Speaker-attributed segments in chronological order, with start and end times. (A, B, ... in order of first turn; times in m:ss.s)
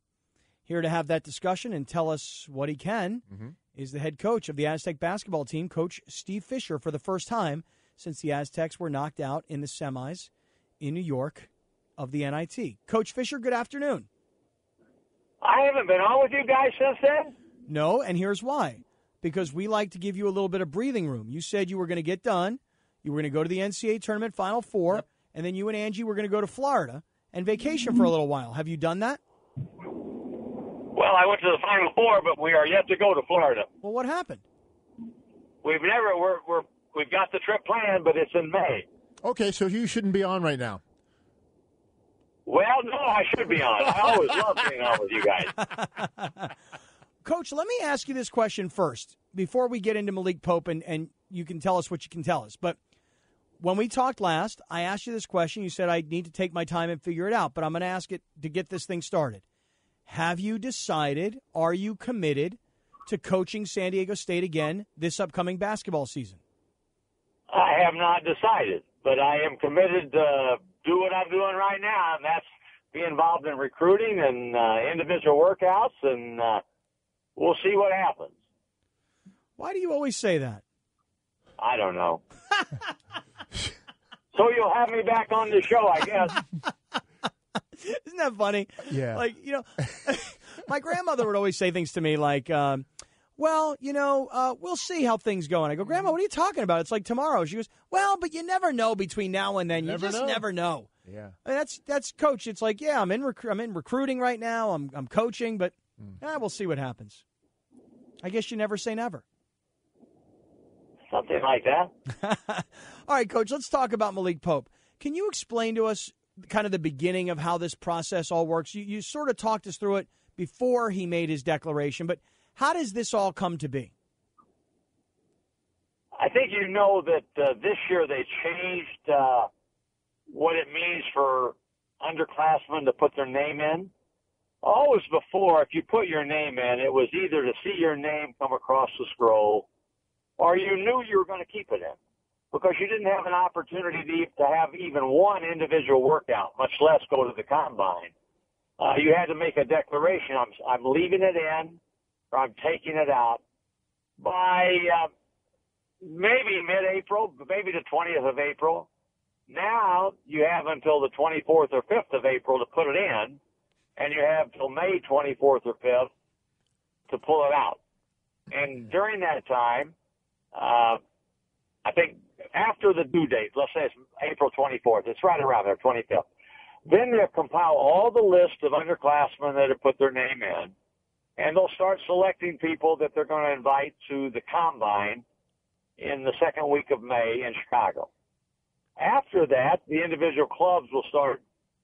0:00.6-0:10.3 A
0:10.8-0:14.1 A
0:15.4-0:17.3 B
0:17.7-0:29.2 A
0:30.9-0:33.7 B
0:33.8-0:34.4 A
0:35.6-0:38.8 B
0:39.2-0:40.8 C
0:42.4-0:45.5 B
0:45.6-0:46.5 A
0:47.2-0:52.8 A
0:53.6-0:59.4 A
1:00.0-1:06.4 A
1:07.5-1:16.6 B
1:17.4-1:18.3 B
1:19.6-1:20.6 A
1:21.6-1:22.2 B
1:24.3-1:26.4 B
1:27.8-1:32.8 A
1:28.9-1:29.2 C
1:33.4-1:40.9 A
1:39.8-1:40.4 C
1:41.0-1:41.3 C
1:41.4-1:47.2 A
1:48.2-1:49.2 A
1:51.1-1:51.9 B
1:52.1-2:03.9 A
2:06.2-2:09.5 B
2:10.3-2:13.9 B
2:14.6-2:19.6 B
2:20.4-2:22.0 B
2:22.5-2:28.1 B
2:28.8-2:31.8 B
2:32.3-2:33.4 B
2:34.2-2:35.1 B
2:36.0-2:38.9 B
2:39.5-2:43.4 B
2:44.0-2:46.1 B
2:47.1-2:47.8 B
2:48.5-2:49.9 B
2:50.5-2:51.0 B
2:51.8-2:56.3 B
2:56.8-3:00.7 B
3:01.4-3:05.2 B
3:06.0-3:08.1 B
3:09.0-3:11.4 B